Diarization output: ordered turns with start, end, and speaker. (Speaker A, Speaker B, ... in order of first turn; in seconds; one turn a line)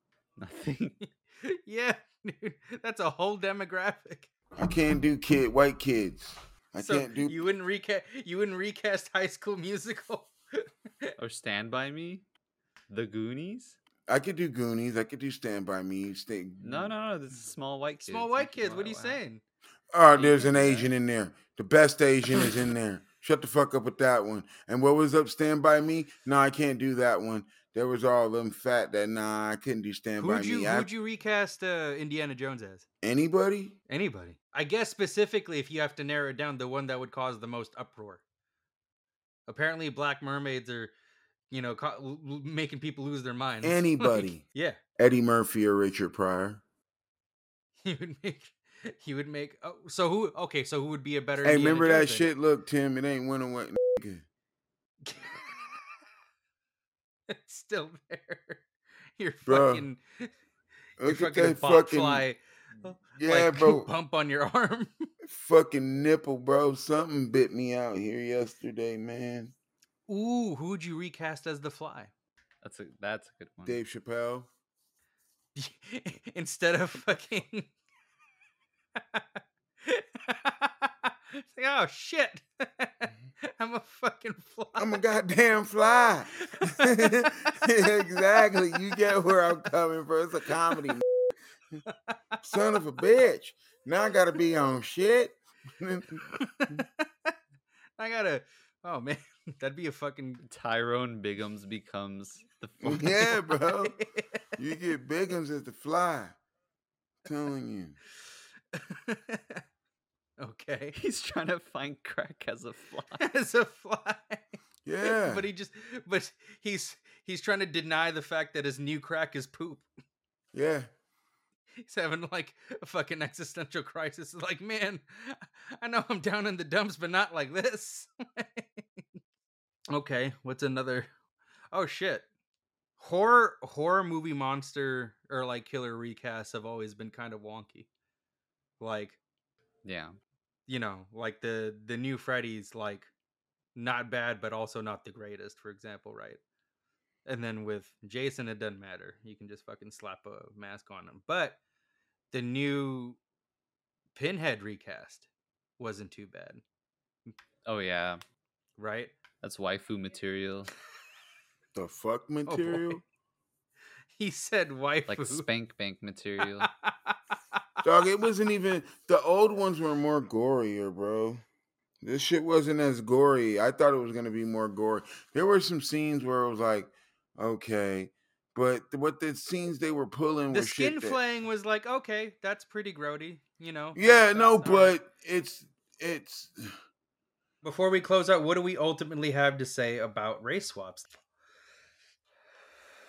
Speaker A: 0.4-1.0
Speaker B: 1.0-4.3
Speaker C: 4.6-7.4
Speaker B: 6.8-11.1
Speaker A: 11.2-12.2
Speaker A: 12.9-13.8
Speaker C: 14.1-16.9
Speaker A: 16.6-19.2
Speaker B: 18.1-19.4
Speaker C: 19.9-30.9
Speaker A: 20.1-20.9
Speaker B: 30.2-32.9
Speaker C: 33.0-33.8
Speaker B: 33.9-38.2
Speaker B: 39.5-40.9
Speaker B: 41.5-44.8
Speaker C: 43.6-44.4
Speaker C: 45.0-46.6
Speaker B: 47.8-52.3
Speaker C: 51.4-54.2
Speaker B: 55.0-55.8
Speaker B: 57.3-58.6
Speaker B: 59.2-60.3
Speaker C: 59.5-59.9
Speaker C: 61.0-62.3
Speaker B: 61.1-65.1
Speaker C: 63.2-63.9
Speaker C: 65.2-69.5
Speaker B: 70.1-72.1
Speaker A: 72.6-73.8
Speaker C: 73.7-74.5
Speaker B: 75.6-77.7
Speaker B: 79.0-79.2
Speaker B: 79.8-84.9
Speaker C: 84.8-91.0
Speaker B: 86.4-88.8
Speaker C: 92.4-96.8
Speaker B: 96.3-97.3
Speaker B: 98.0-100.4
Speaker A: 100.4-103.2
Speaker C: 102.8-104.0
Speaker B: 103.5-104.4
Speaker C: 104.6-106.4
Speaker C: 107.2-108.0
Speaker B: 108.7-109.6
Speaker B: 110.4-111.0
Speaker A: 111.0-113.2
Speaker B: 113.2-114.4
Speaker C: 114.8-115.5
Speaker B: 115.0-119.8
Speaker C: 120.5-120.9
Speaker B: 121.8-129.0
Speaker B: 129.9-131.1
Speaker B: 131.7-132.3
Speaker B: 133.0-137.9
Speaker B: 138.8-139.2
Speaker A: 139.8-140.2
Speaker B: 140.7-143.1
Speaker B: 143.8-146.4
Speaker B: 147.3-151.6
Speaker B: 152.3-153.2
Speaker B: 154.2-155.3
Speaker B: 155.8-156.6
Speaker A: 157.7-158.2
Speaker B: 158.8-159.1
Speaker A: 159.4-160.7
Speaker C: 161.8-163.0
Speaker B: 162.5-163.0
Speaker B: 164.2-165.5
Speaker A: 165.1-166.7
Speaker B: 166.4-167.6
Speaker C: 167.8-171.4
Speaker C: 172.0-181.2
Speaker B: 180.5-185.0
Speaker C: 184.0-186.6
Speaker B: 187.6-191.1